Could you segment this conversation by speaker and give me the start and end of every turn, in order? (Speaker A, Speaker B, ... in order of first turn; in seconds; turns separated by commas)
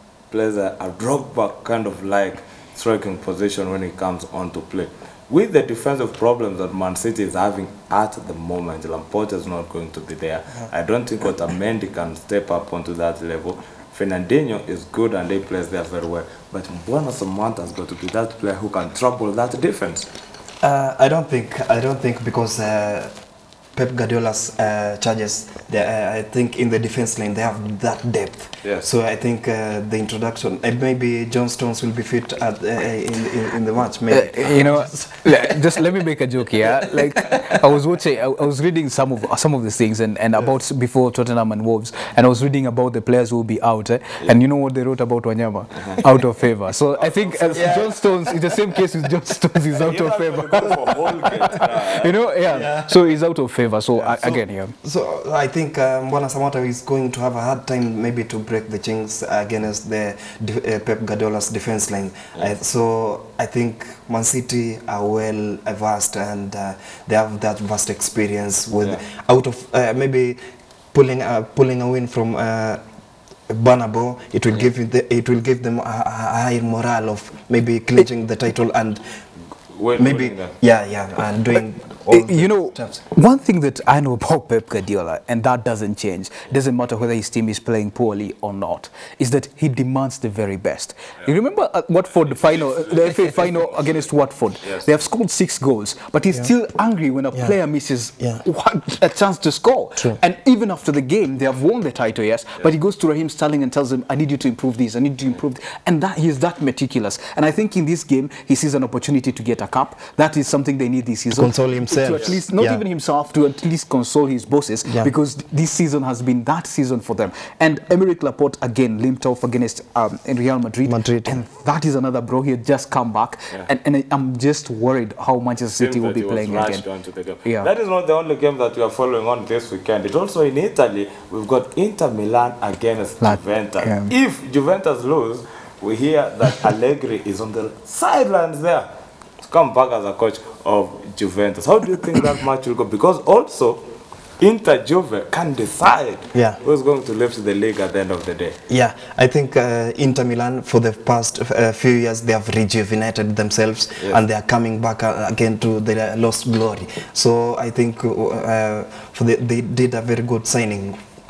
Speaker A: 0.3-20.1, Speaker B: 20.6-23.1, Speaker B: 23.7-35.6, Speaker C: 34.1-54.8, Speaker A: 47.0-48.0, Speaker A: 49.7-52.2, Speaker B: 52.5-52.9, Speaker B: 54.8-70.4, Speaker B: 70.9-72.8, Speaker B: 73.5-79.0, Speaker A: 79.7-80.5, Speaker B: 80.0-83.0, Speaker C: 82.1-126.8, Speaker A: 92.3-93.9, Speaker B: 111.3-112.8, Speaker B: 114.8-115.1, Speaker B: 120.8-121.4, Speaker A: 125.8-138.9, Speaker C: 133.2-134.1, Speaker A: 139.4-143.9, Speaker A: 144.4-148.6, Speaker B: 146.3-146.6, Speaker B: 148.7-161.0